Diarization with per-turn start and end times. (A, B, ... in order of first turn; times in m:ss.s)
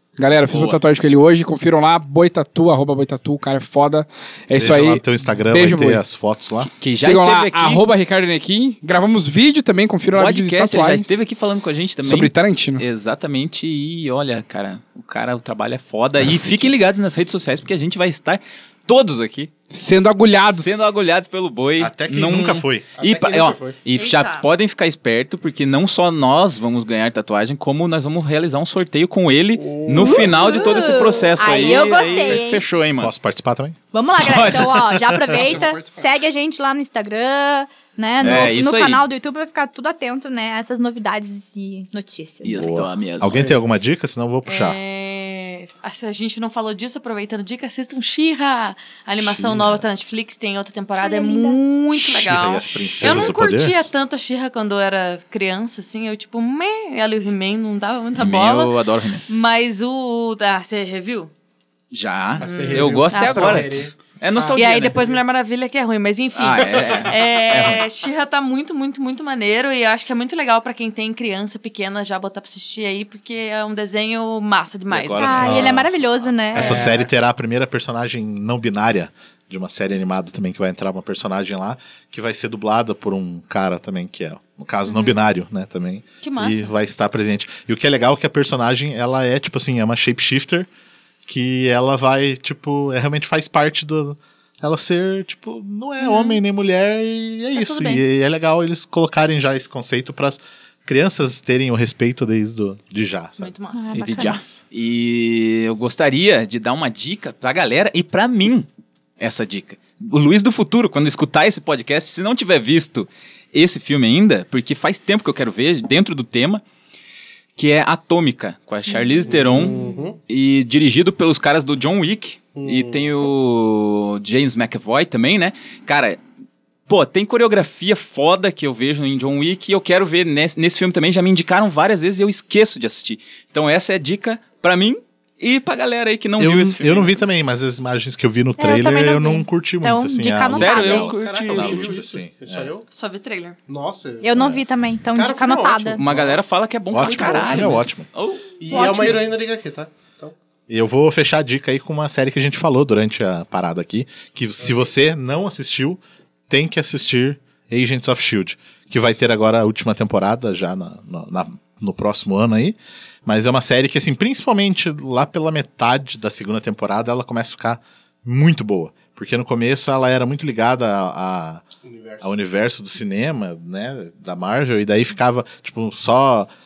0:00.2-0:06.0 A
0:00.5-0:00.8 B
0:04.5-0:06.7 C
0:06.8-0:07.8 B
0:07.0-0:11.2 A
0:10.1-0:19.5 B
0:12.0-0:12.8 A
0:16.3-0:16.7 C
0:19.7-0:20.8 A
0:20.5-0:33.1 B
0:21.8-0:22.9 C
0:23.0-0:23.8 D
0:23.9-0:24.5 E
0:29.6-0:31.0 D
0:30.0-0:32.6 F
0:31.4-0:32.4 E
0:33.0-0:35.6 C
0:33.9-0:42.7 F
0:34.2-0:34.9 B
0:35.4-0:35.9 D
0:38.2-0:38.5 C
0:38.2-0:39.0 B
0:42.4-0:43.4 B
0:42.5-0:44.8 C
0:43.3-0:43.6 D
0:44.4-0:58.7 E
0:49.2-0:49.8 C
0:51.0-0:51.6 F
0:51.9-0:53.9 C
0:58.2-0:59.2 B
0:59.3-1:01.3 E
1:01.9-1:05.0 B
1:02.4-1:05.2 D
1:02.4-1:03.8 E
1:04.5-1:15.5 E
1:06.3-1:07.8 B
1:14.9-1:30.7 C
1:15.2-1:17.0 F
1:16.5-1:17.1 D
1:24.9-1:25.2 E
1:26.2-1:26.7 E
1:31.2-1:43.5 C
1:36.0-1:36.4 E
1:37.5-1:38.0 E
1:43.4-1:44.0 E
1:43.7-1:44.4 F
1:43.9-1:48.7 B
1:44.2-1:44.5 C
1:49.2-1:56.6 B
1:57.6-1:59.7 B
1:59.2-2:00.2 D
2:00.3-2:06.2 B
2:02.6-2:03.2 D
2:06.9-2:17.1 B
2:16.4-2:22.7 C
2:18.6-2:21.1 F
2:20.5-2:22.0 B
2:20.9-2:22.8 D
2:22.9-2:23.6 E
2:23.7-2:24.5 D
2:24.2-2:26.0 F
2:24.3-2:24.6 C
2:25.1-2:27.8 D
2:26.0-2:28.8 B
2:26.9-2:28.1 C
2:28.6-2:30.3 D
2:28.7-2:29.2 F
2:30.7-2:51.6 C
2:34.6-2:34.9 D
2:51.8-2:52.3 D
2:52.2-2:56.5 C